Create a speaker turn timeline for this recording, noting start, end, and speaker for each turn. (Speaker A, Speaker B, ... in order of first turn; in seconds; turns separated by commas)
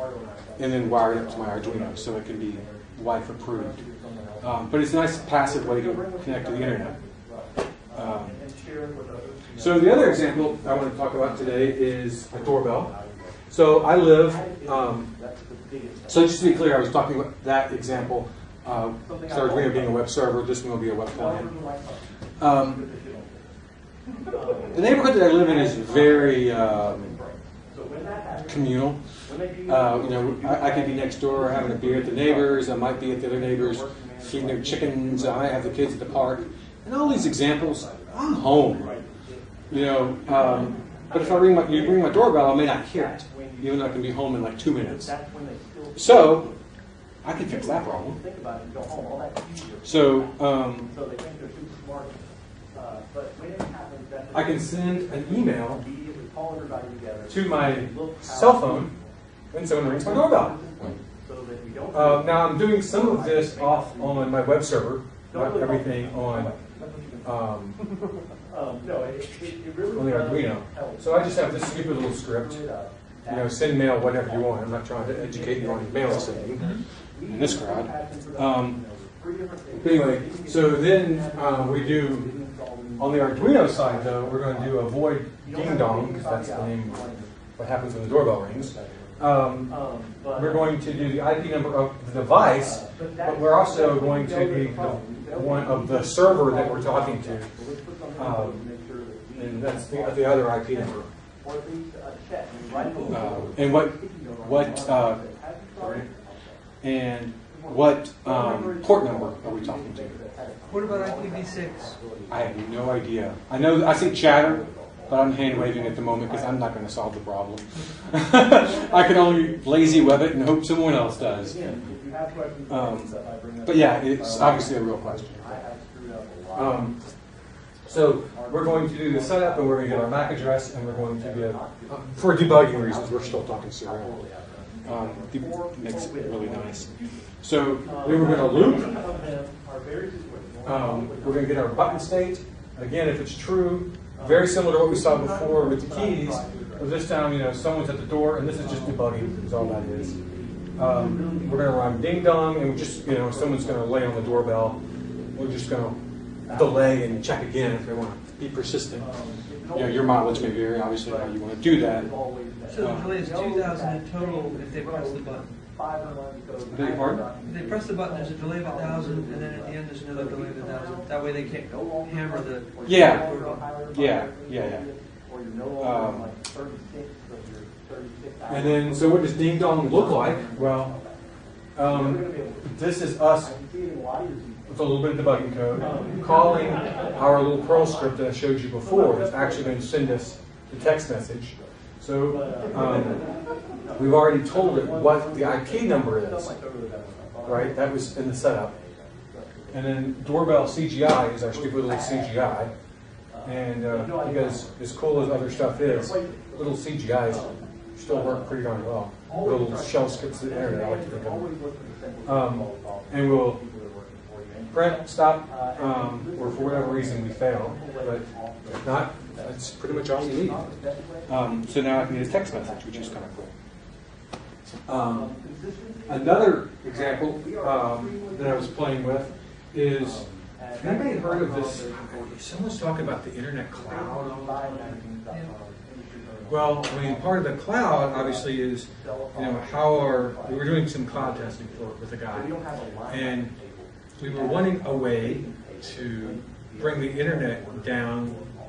Speaker A: 0.6-3.8, Speaker A: 4.4-6.9, Speaker A: 7.9-8.3, Speaker A: 9.6-12.9, Speaker A: 13.5-15.1, Speaker A: 16.1-21.5, Speaker A: 22.4-22.9, Speaker A: 24.7-27.2, Speaker A: 28.4-29.0, Speaker A: 29.6-38.9, Speaker A: 39.7-45.1, Speaker A: 46.0-46.5, Speaker A: 47.2-48.2, Speaker A: 49.8-50.9, Speaker A: 54.3-55.8, Speaker A: 57.3-58.9, Speaker A: 59.5-60.6, Speaker A: 61.9-66.5, Speaker A: 67.2-67.8, Speaker A: 69.9-72.6, Speaker A: 73.3-76.7, Speaker A: 77.3-78.8, Speaker A: 79.7-82.3, Speaker A: 83.0-87.0, Speaker A: 87.6-89.7, Speaker A: 90.3-97.5, Speaker A: 98.2-98.6, Speaker A: 99.3-101.1, Speaker B: 102.7-103.4, Speaker A: 103.1-105.2, Speaker A: 105.8-106.1, Speaker A: 106.8-110.2, Speaker B: 110.7-112.0, Speaker A: 112.3-121.7, Speaker A: 122.7-123.1, Speaker A: 123.6-125.6, Speaker A: 126.5-127.0, Speaker A: 127.8-134.2, Speaker A: 134.8-138.9, Speaker A: 140.6-150.2, Speaker A: 150.8-154.8, Speaker A: 155.3-156.0, Speaker A: 156.5-159.1, Speaker A: 159.7-162.1, Speaker B: 162.7-165.5, Speaker A: 162.8-163.2, Speaker A: 166.7-167.2, Speaker B: 167.4-173.6, Speaker A: 172.8-173.3, Speaker A: 173.9-174.9, Speaker A: 175.8-176.3, Speaker A: 178.5-181.0, Speaker A: 181.7-183.5, Speaker A: 184.7-193.2, Speaker A: 193.9-196.6, Speaker A: 197.4-198.7, Speaker A: 199.7-202.7, Speaker A: 203.4-211.5, Speaker A: 212.2-213.6, Speaker A: 214.7-218.2, Speaker A: 218.8-220.7, Speaker A: 221.3-223.5, Speaker A: 224.8-225.3, Speaker A: 226.1-230.2, Speaker A: 230.7-234.9, Speaker B: 235.3-235.5, Speaker A: 236.5-242.5, Speaker A: 243.1-243.5, Speaker A: 244.2-248.4